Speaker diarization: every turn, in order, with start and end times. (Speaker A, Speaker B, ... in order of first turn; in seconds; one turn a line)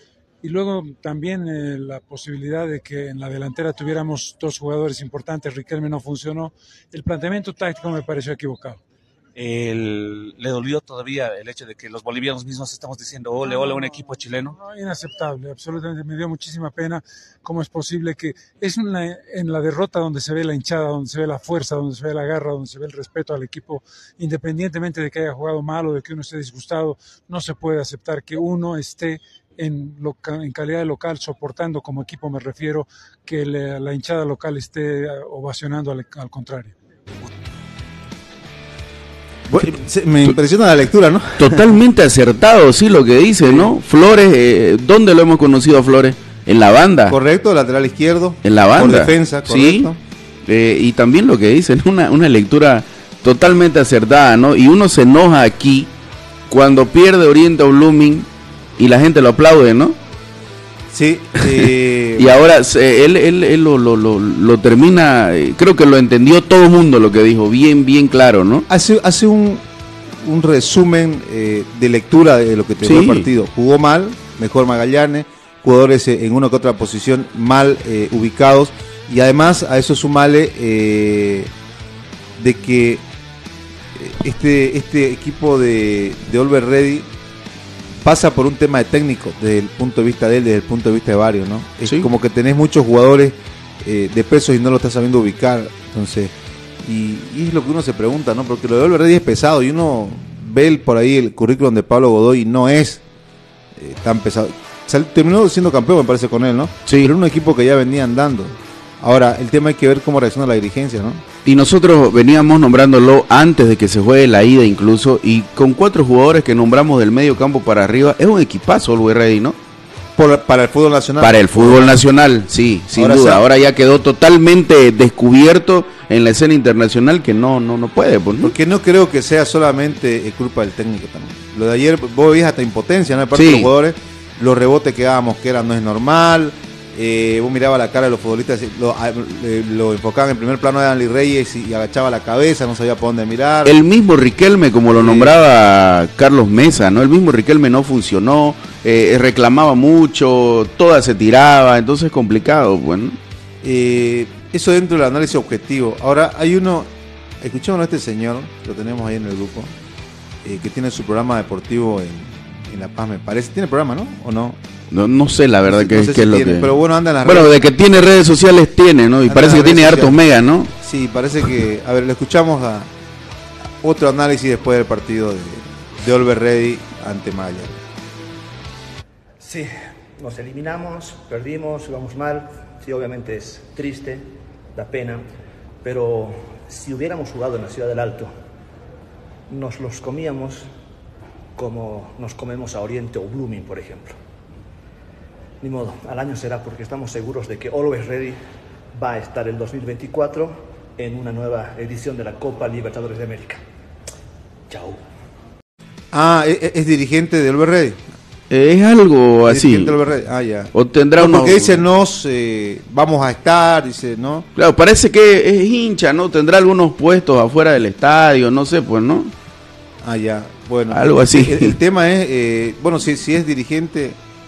Speaker A: 0.4-8.8
Speaker B: 9.3-14.6
Speaker A: 14.6-36.7
Speaker C: 39.5-41.7
Speaker D: 41.4-47.2
Speaker C: 47.1-50.0
Speaker D: 48.4-49.9
Speaker D: 50.5-55.9
Speaker D: 56.5-58.3
Speaker D: 58.8-60.0
Speaker C: 60.9-62.4
Speaker D: 62.2-68.7
Speaker C: 68.7-69.6
Speaker C: 70.2-81.5
Speaker D: 72.8-73.3
Speaker C: 82.4-83.0
Speaker C: 84.0-87.1
Speaker C: 88.0-103.0
Speaker C: 103.8-111.2
Speaker D: 106.9-107.1
Speaker D: 111.4-119.5
Speaker C: 120.2-122.0
Speaker D: 121.2-128.5
Speaker C: 123.0-123.4
Speaker C: 128.4-143.8
Speaker D: 133.3-133.7
Speaker D: 143.6-153.2
Speaker C: 144.9-145.3
Speaker C: 153.6-159.7
Speaker C: 160.4-164.6
Speaker D: 164.9-170.7
Speaker C: 165.7-167.5
Speaker C: 169.3-170.2
Speaker C: 170.8-172.9
Speaker C: 173.8-177.8
Speaker E: 179.4-185.2
Speaker E: 185.8-188.3
Speaker E: 189.5-190.7
Speaker E: 191.6-194.2
Speaker E: 195.6-198.4
Speaker E: 198.9-203.6
Speaker E: 204.7-205.0
Speaker C: 206.1-208.0
Speaker D: 208.5-210.0
Speaker C: 209.5-214.5
Speaker D: 210.7-211.8
Speaker D: 214.6-219.3
Speaker C: 220.0-224.2
Speaker D: 220.9-221.8